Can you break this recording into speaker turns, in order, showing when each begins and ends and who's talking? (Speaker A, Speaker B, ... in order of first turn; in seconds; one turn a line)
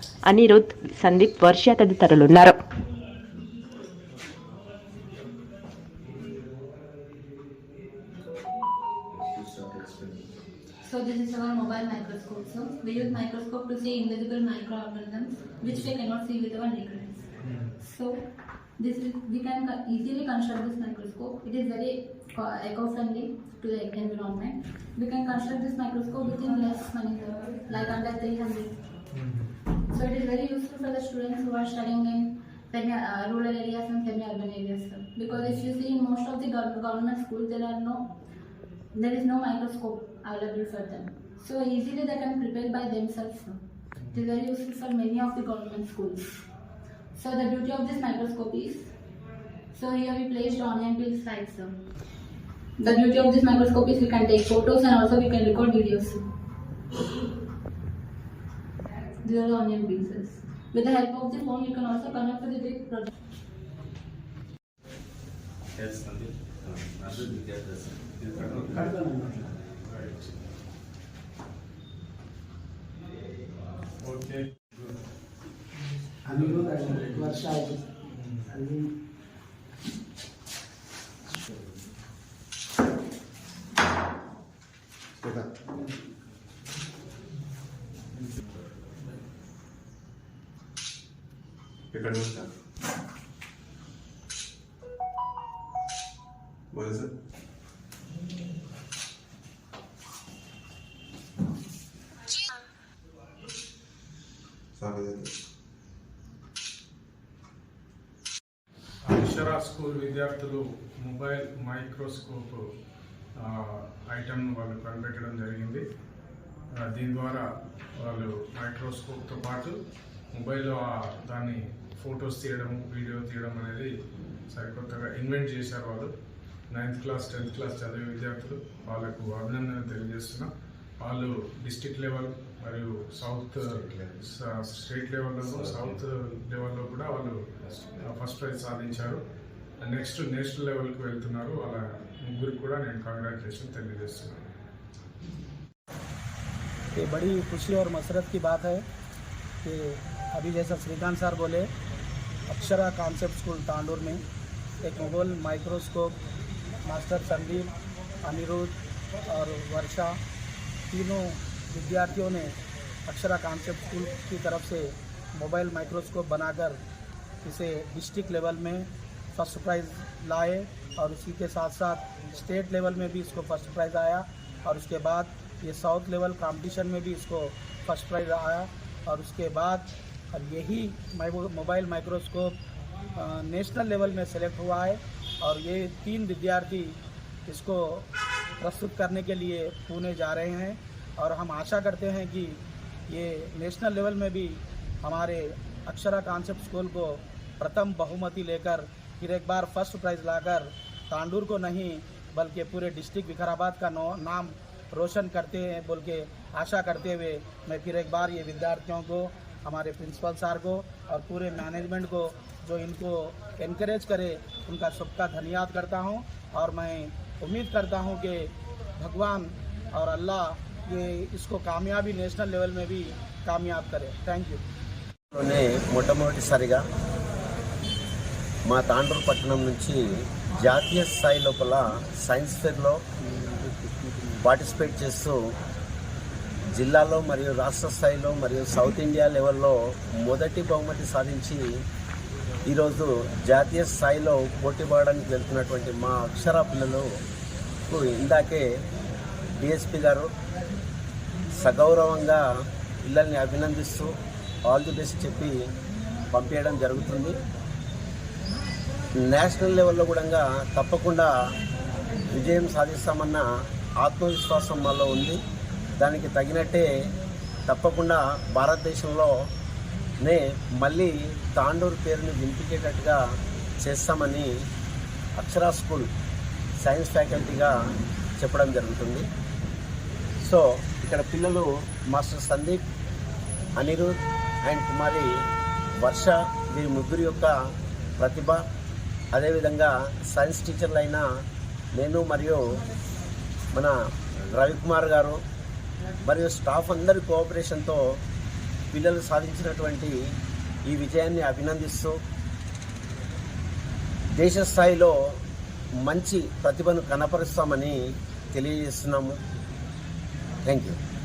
Speaker A: 0.3-2.5
Speaker B: 9.4-9.9
Speaker C: 10.8-17.2
Speaker D: 17.4-17.7
Speaker C: 17.8-18.2
Speaker C: 18.8-28.7
Speaker D: 29.1-29.5
Speaker C: 29.9-38.1
Speaker D: 35.3-35.6
Speaker C: 38.9-43.6
Speaker C: 44.1-46.3
Speaker C: 47.2-48.9
Speaker C: 49.7-51.8
Speaker C: 52.8-56.2
Speaker C: 59.2-63.1
Speaker B: 65.8-69.0
Speaker E: 68.8-69.2
Speaker D: 69.9-70.3
Speaker D: 74.0-74.5
Speaker D: 76.4-76.6
Speaker E: 76.5-77.5
Speaker D: 78.1-78.5
Speaker B: 85.2-85.5
Speaker B: 91.9-92.5
Speaker B: 96.7-97.1
Speaker B: 104.8-105.3
Speaker D: 109.1-112.6
Speaker D: 113.4-115.8
Speaker D: 116.8-117.5
Speaker D: 118.0-119.8
Speaker D: 120.3-123.9
Speaker D: 124.5-126.1
Speaker D: 126.7-130.5
Speaker D: 131.0-139.2
Speaker B: 135.5-135.9
Speaker D: 139.8-144.4
Speaker E: 146.9-148.8
Speaker E: 149.6-151.7
Speaker E: 152.5-154.2
Speaker E: 154.8-156.2
Speaker E: 156.8-157.7
Speaker E: 158.2-158.7
Speaker E: 159.3-160.1
Speaker E: 160.9-162.5
Speaker E: 163.1-166.8
Speaker E: 167.4-182.6
Speaker E: 183.2-188.1
Speaker E: 188.6-224.6
Speaker F: 225.3-226.8
Speaker F: 228.7-230.0
Speaker F: 230.6-233.0
Speaker F: 234.4-235.4
Speaker F: 236.7-241.6
Speaker F: 242.7-247.1
Speaker F: 247.9-248.7
Speaker F: 249.6-250.3
Speaker F: 251.5-252.4
Speaker F: 253.1-254.1
Speaker F: 254.7-255.6
Speaker F: 256.3-257.4
Speaker F: 259.2-261.3
Speaker F: 262.3-263.4
Speaker F: 264.0-265.4
Speaker F: 266.0-266.9
Speaker F: 267.7-269.3
Speaker F: 270.2-273.2
Speaker F: 273.8-274.5
Speaker F: 275.4-276.1
Speaker F: 276.8-277.7
Speaker F: 278.4-279.3
Speaker F: 280.4-282.8
Speaker F: 283.8-284.1
Speaker F: 284.6-285.3
Speaker F: 286.0-287.6
Speaker F: 288.2-288.6
Speaker F: 289.3-291.2
Speaker F: 291.9-292.6
Speaker F: 293.7-295.4
Speaker F: 296.2-298.0
Speaker F: 298.9-300.2
Speaker F: 300.9-302.2
Speaker F: 304.4-305.1
Speaker F: 306.0-308.0
Speaker F: 308.5-309.4
Speaker F: 310.7-311.0